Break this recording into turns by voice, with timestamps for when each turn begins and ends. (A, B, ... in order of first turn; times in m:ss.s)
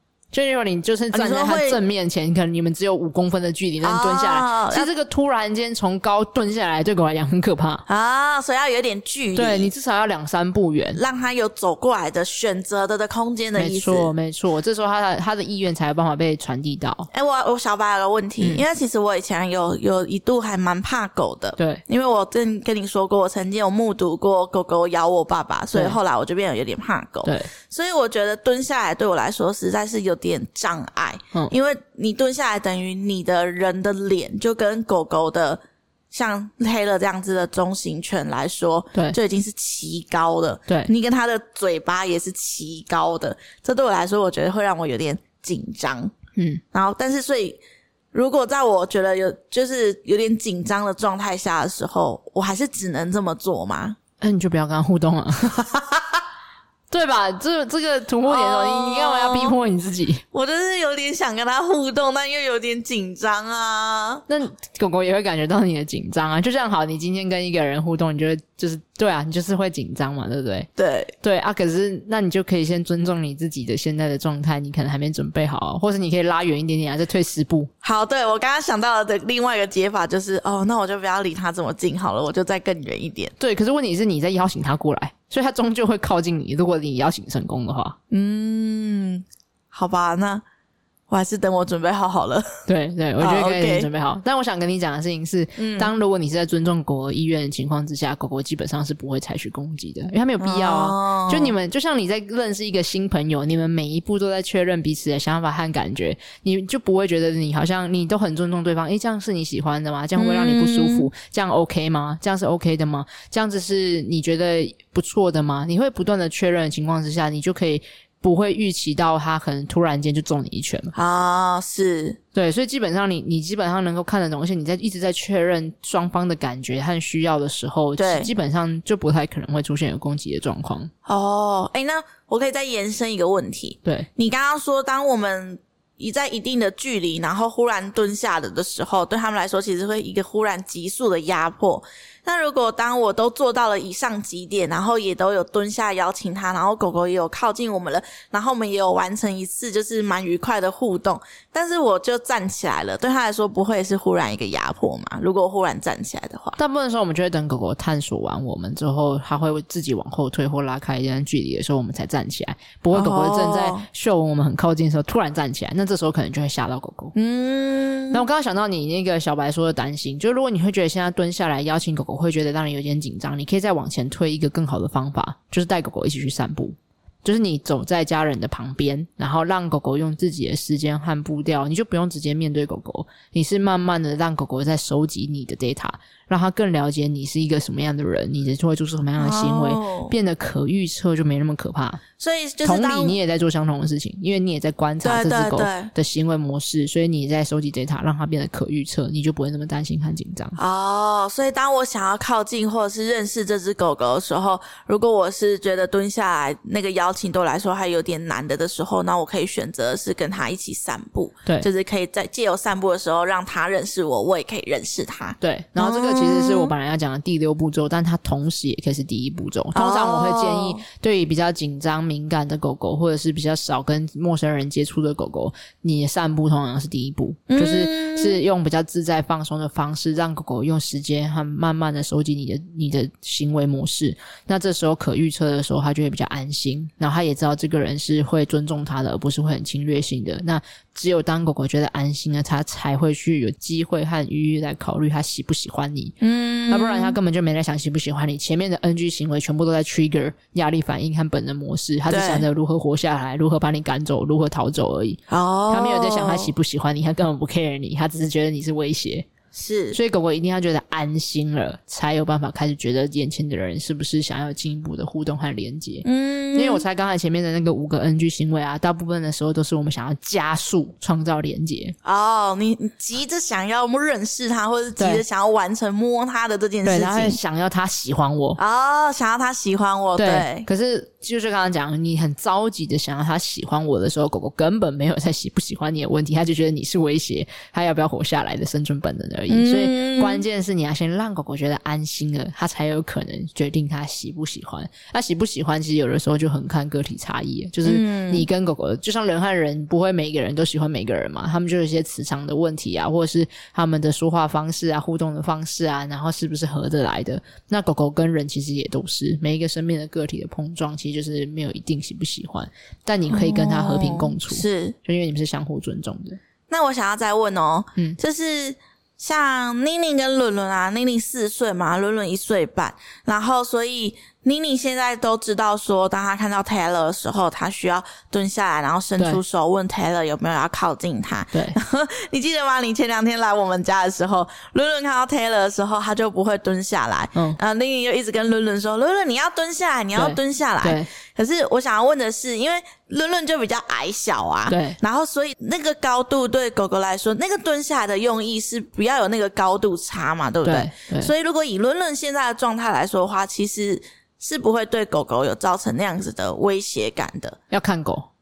0:00.3-0:07.8 A
0:01.1-0:01.8 B
0:03.8-0:04.9 B
0:07.9-0:09.7 B
0:09.4-0:11.0 A
0:11.0-0:14.1 B
0:13.6-0:17.1 A
0:17.1-0:46.1 B
0:21.6-0:21.8 A
0:25.7-0:26.0 A
0:27.2-0:27.5 A
0:46.4-0:46.6 A
0:46.7-0:47.6 B
0:48.1-0:54.0 B
0:54.2-0:55.7 A
0:55.7-0:56.0 B
0:56.9-1:00.2 A
0:58.3-0:59.6 B
1:00.3-1:04.2 B
1:04.3-1:10.7 A
1:10.8-1:11.1 B
1:11.2-1:17.7 A
1:17.8-1:23.3 B
1:23.4-1:28.0 A
1:28.1-1:30.4 B
1:31.1-1:32.5 B
1:32.7-2:01.0 A
1:33.2-1:33.9 B
1:35.6-1:35.9 B
1:40.4-1:41.6 B
1:50.2-1:51.1 B
2:01.0-2:02.2 B
2:02.3-2:10.9 A
2:08.0-2:08.3 B
2:11.1-2:36.6 B
2:36.6-2:47.1 A
2:42.9-2:43.8 B
2:47.1-2:48.2 B
2:48.1-3:12.0 A
3:09.2-3:10.1 B
3:12.2-3:13.2 B
3:12.6-3:20.6 A
3:15.0-3:15.9 B
3:20.6-3:36.7 B
3:35.4-4:19.3 A
3:39.7-3:40.8 B
3:47.5-3:48.4 B
4:06.2-4:07.2 B
4:12.1-4:12.5 B
4:15.3-4:16.5 B
4:19.5-4:20.0 B
4:19.9-4:32.0 A
4:26.0-4:26.8 B
4:32.0-4:37.4 B
4:35.0-4:35.2 A
4:36.8-4:38.6 A
4:38.6-4:40.7 B
4:40.2-5:16.4 A
4:49.5-4:50.4 B
4:57.8-4:58.5 B
5:13.3-5:15.0 B
5:16.7-5:57.6 B
5:40.1-5:41.1 A
5:44.7-5:45.0 A
5:50.6-5:51.3 A
5:57.7-5:58.3 A